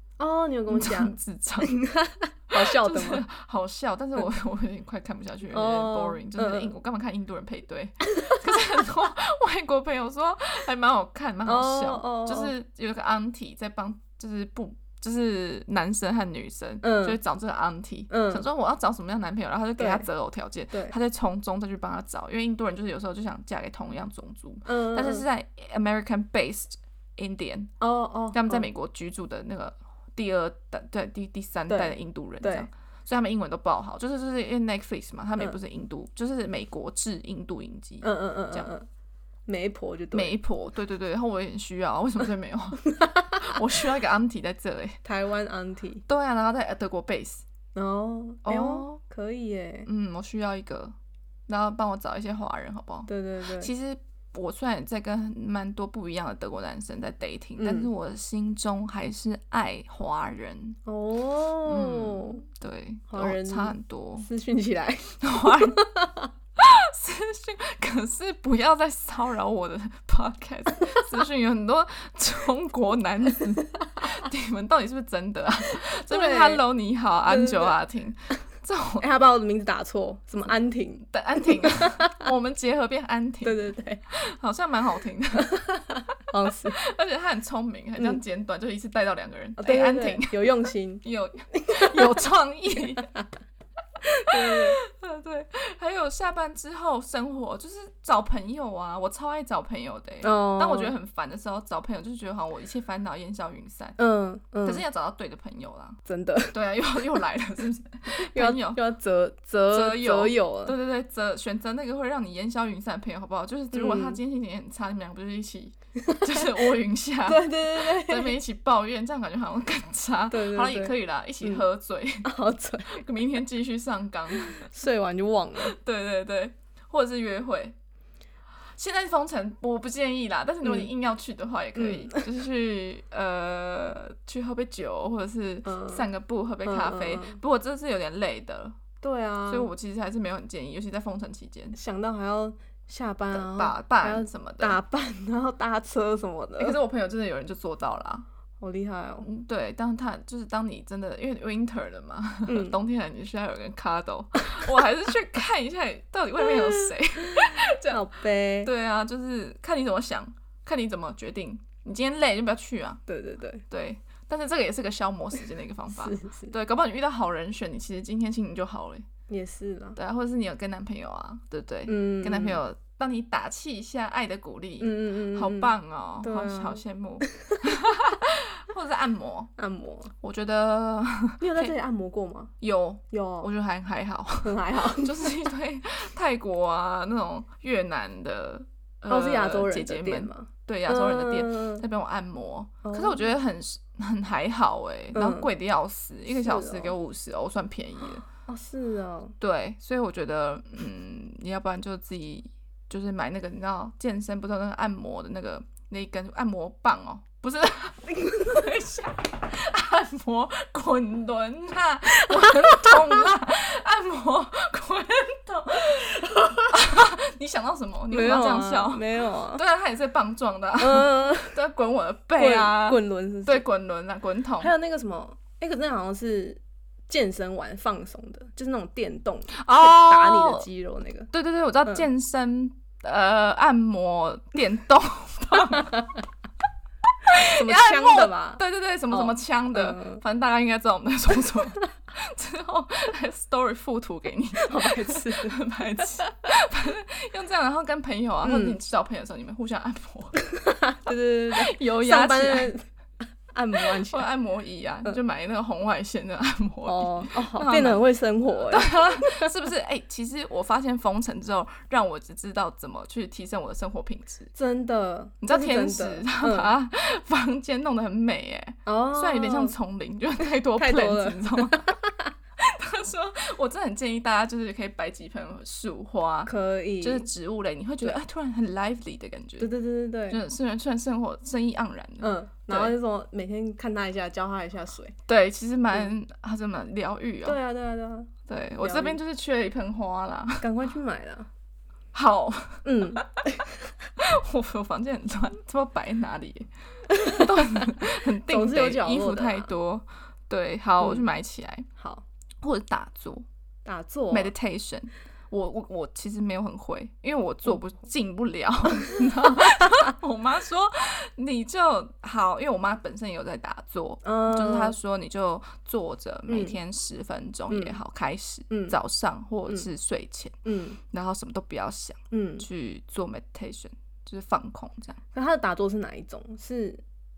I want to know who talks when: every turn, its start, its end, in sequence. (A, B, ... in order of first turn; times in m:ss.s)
0:00.2-0:03.2 A
0:00.7-0:01.8 B
0:02.5-0:27.7 B
0:05.5-0:06.7 A
0:11.5-0:12.5 A
0:16.8-0:17.2 A
0:18.1-0:18.4 A
0:19.8-0:20.0 A
0:24.7-0:25.2 A
0:27.8-0:28.7 A
0:28.3-0:38.7 B
0:31.7-0:32.7 A
0:38.0-0:38.9 A
0:39.5-0:40.4 A
0:40.1-0:45.0 B
0:42.9-0:43.6 A
0:45.0-0:46.0 A
0:46.1-0:47.4 B
0:47.8-0:49.9 A
0:48.4-0:49.0 B
0:49.9-0:51.0 B
0:51.5-1:00.8 B
0:53.1-0:53.7 A
0:57.6-0:57.9 A
1:00.9-1:02.4 A
1:01.7-1:04.3 B
1:03.1-1:06.3 A
1:05.2-1:05.8 B
1:06.6-1:19.1 B
1:16.1-1:16.6 A
1:17.3-1:17.8 A
1:19.0-1:22.2 A
1:21.1-1:25.6 B
1:23.4-1:24.0 A
1:25.4-1:26.8 A
1:26.7-1:33.1 B
1:29.6-1:31.0 A
1:31.5-1:32.2 A
1:33.0-1:33.2 A
1:34.1-1:34.8 A
1:34.2-1:44.0 B
1:40.2-1:40.9 A
1:44.0-1:44.8 A
1:44.6-1:46.0 B
1:46.1-1:46.6 A
1:46.5-1:48.8 B
1:48.2-1:50.8 A
1:49.7-2:02.3 B
1:53.7-1:54.2 A
1:56.0-1:56.5 A
1:57.3-1:58.4 A
2:00.3-2:01.6 A
2:02.2-2:03.0 A
2:02.9-2:04.7 B
2:04.3-2:05.8 A
2:05.6-2:07.8 B
2:08.8-2:18.8 B
2:10.6-2:10.9 A
2:11.8-2:12.2 A
2:15.6-2:16.1 A
2:16.6-2:17.4 A
2:19.0-2:19.7 A
2:19.5-2:21.8 B
2:21.7-2:26.8 A
2:23.3-2:24.8 B
2:26.6-2:28.3 B
2:28.6-2:29.3 A
2:29.2-2:38.1 B
2:32.5-2:32.8 A
2:34.4-2:34.8 A
2:36.4-2:38.7 A
2:38.6-2:43.0 B
2:43.1-2:43.6 A
2:43.7-2:49.1 B
2:45.9-2:46.5 A
2:49.3-2:50.0 A
2:50.0-2:59.5 B
2:51.9-2:52.6 A
2:54.8-2:57.6 A
2:59.6-3:00.1 A
3:00.2-3:01.7 B
3:01.4-3:02.5 A
3:02.6-3:18.2 B
3:03.1-3:03.5 A
3:04.4-3:05.5 A
3:09.1-3:11.8 A
3:12.8-3:13.3 A
3:15.1-3:15.5 A
3:16.3-3:16.9 A
3:18.5-3:19.4 A
3:19.4-3:44.7 B
3:28.2-3:28.6 A
3:32.3-3:33.1 A
3:38.1-3:39.6 A
3:40.8-3:41.6 A
3:42.4-3:43.6 A
3:44.6-3:51.3 A
3:49.5-3:50.7 B
3:51.3-3:56.1 B
3:57.2-4:10.4 B
3:57.5-4:00.2 A
4:04.6-4:05.6 A
4:08.4-4:08.8 A
4:10.4-4:12.8 A
4:11.5-4:12.7 B
4:13.5-4:14.3 A
4:13.8-4:24.5 B
4:16.8-4:19.5 A
4:24.6-4:26.7 A
4:25.4-4:32.0 B
4:28.9-4:29.8 A
4:30.8-4:32.3 A
4:32.6-4:39.7 B
4:36.5-4:37.3 A
4:39.6-4:40.4 A
4:40.3-4:42.9 B
4:42.2-4:45.2 A
4:45.3-4:47.6 B
4:47.4-4:49.2 A
4:48.5-4:50.8 B
4:50.6-4:51.5 A
4:52.1-4:53.4 B
4:52.8-4:53.9 A
4:54.2-5:01.9 B
4:57.1-4:59.7 A
5:02.0-5:02.2 A
5:02.6-5:03.4 B
5:03.8-5:04.5 A
5:04.3-5:20.6 B
5:14.2-5:15.0 A
5:16.5-5:16.8 A
5:17.7-5:18.0 A
5:18.7-5:19.0 A
5:20.7-5:21.0 A
5:21.1-5:25.2 B
5:22.3-5:22.7 A
5:25.3-5:27.0 A